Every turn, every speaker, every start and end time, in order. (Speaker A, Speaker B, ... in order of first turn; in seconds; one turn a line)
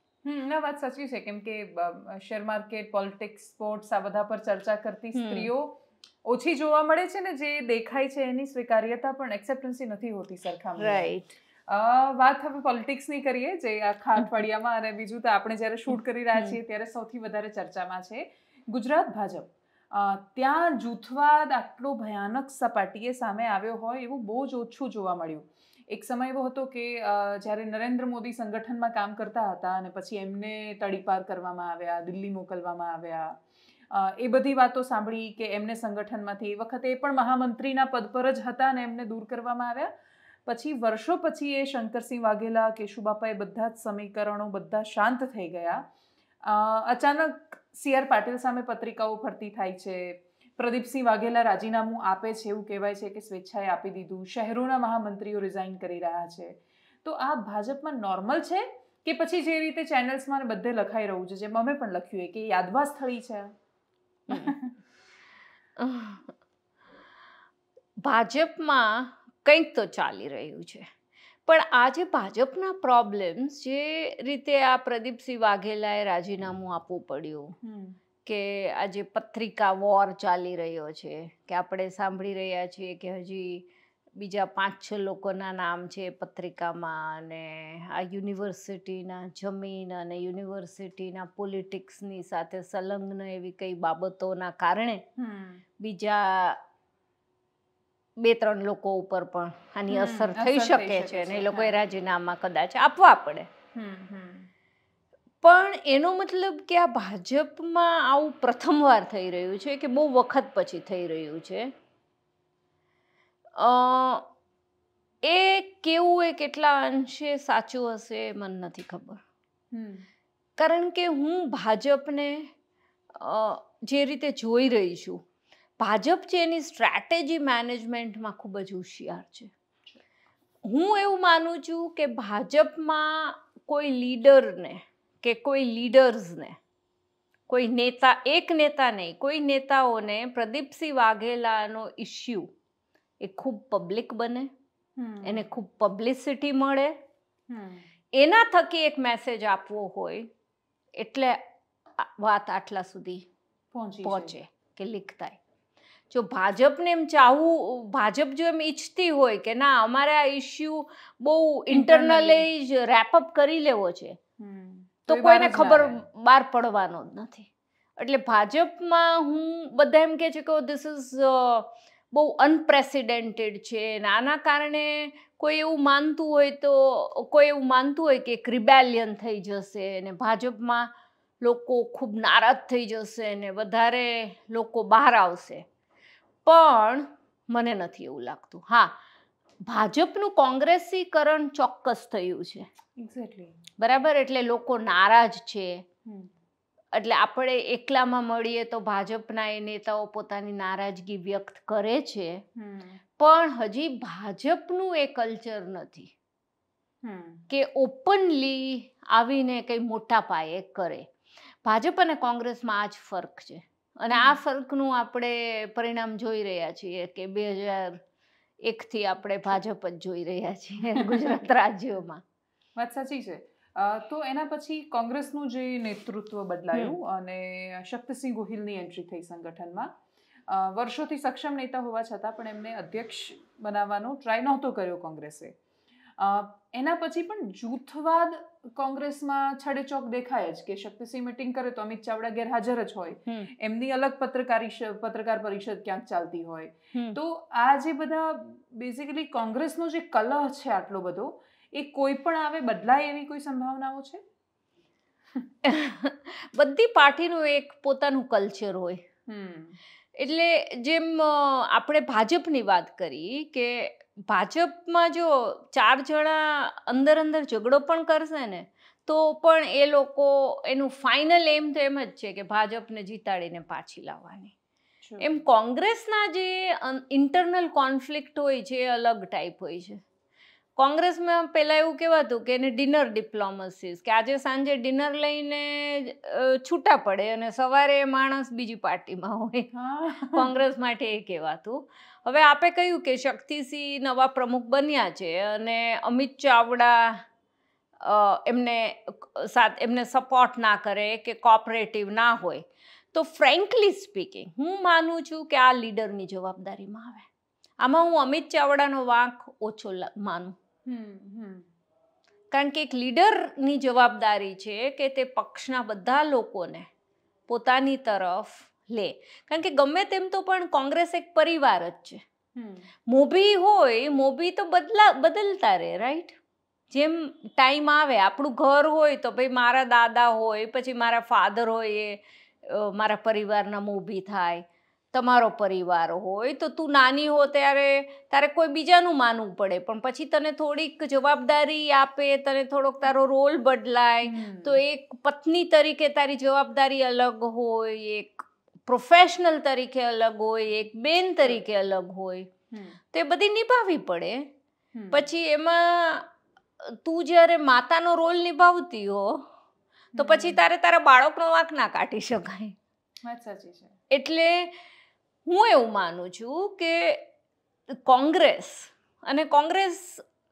Speaker A: 0.2-11.1
Speaker B: 5.1-5.5
Speaker B: 10.8-11.3
Speaker A: 11.7-39.9
Speaker A: 40.5-45.8
Speaker A: 46.4-63.5
Speaker B: 64.3-64.5
Speaker A: 64.3-64.8
Speaker B: 65.8-66.3
Speaker B: 68.0-70.8
Speaker B: 71.5-77.5
Speaker A: 77.6-78.0
Speaker B: 78.2-83.7
Speaker B: 84.2-95.0
Speaker A: 95.2-95.6
Speaker B: 95.8-96.6
Speaker B: 98.2-103.5
Speaker A: 99.9-101.7
Speaker A: 103.7-104.5
Speaker B: 105.4-111.7
Speaker B: 113.6-114.2
Speaker B: 115.2-119.2
Speaker A: 119.7-120.1
Speaker B: 120.6-122.5
Speaker B: 123.1-125.2
Speaker B: 125.8-129.5
Speaker B: 130.6-136.6
Speaker B: 137.5-142.5
Speaker B: 143.2-144.5
Speaker A: 145.0-145.4
Speaker B: 145.2-146.9
Speaker A: 147.5-147.8
Speaker B: 148.1-150.3
Speaker B: 150.9-151.4
Speaker B: 152.0-153.2
Speaker A: 153.7-154.3
Speaker B: 154.0-155.4
Speaker B: 156.1-164.2
Speaker A: 161.7-162.5
Speaker A: 164.4-166.0
Speaker B: 165.1-185.6
Speaker B: 186.4-188.9
Speaker B: 189.6-192.7
Speaker A: 193.0-193.5
Speaker B: 193.8-195.8
Speaker B: 196.9-202.4
Speaker A: 202.6-203.0
Speaker B: 203.2-206.1
Speaker A: 207.0-207.4
Speaker B: 207.5-211.1
Speaker B: 211.6-218.0
Speaker A: 214.1-214.4
Speaker B: 218.6-222.2
Speaker A: 220.8-221.4
Speaker A: 222.8-229.9
Speaker A: 230.5-235.6
Speaker A: 236.2-254.2
Speaker B: 255.6-259.0
Speaker A: 259.3-259.8
Speaker B: 260.2-274.5
Speaker A: 275.0-275.3
Speaker B: 275.2-280.0
Speaker B: 280.8-289.7
Speaker A: 289.7-290.6
Speaker B: 290.3-297.2
Speaker B: 298.0-307.2
Speaker B: 307.8-310.5
Speaker A: 310.9-311.6
Speaker B: 312.5-316.9
Speaker B: 317.5-322.2
Speaker A: 322.6-322.9
Speaker B: 323.1-326.4
Speaker B: 326.9-352.5
Speaker A: 344.2-344.8
Speaker A: 352.7-353.0
Speaker B: 353.1-354.5
Speaker A: 354.9-355.2
Speaker B: 355.1-356.3
Speaker B: 356.8-359.5
Speaker A: 360.1-360.6
Speaker B: 360.2-362.8
Speaker A: 363.2-363.9
Speaker B: 364.1-364.8
Speaker B: 365.4-367.2
Speaker B: 367.9-370.2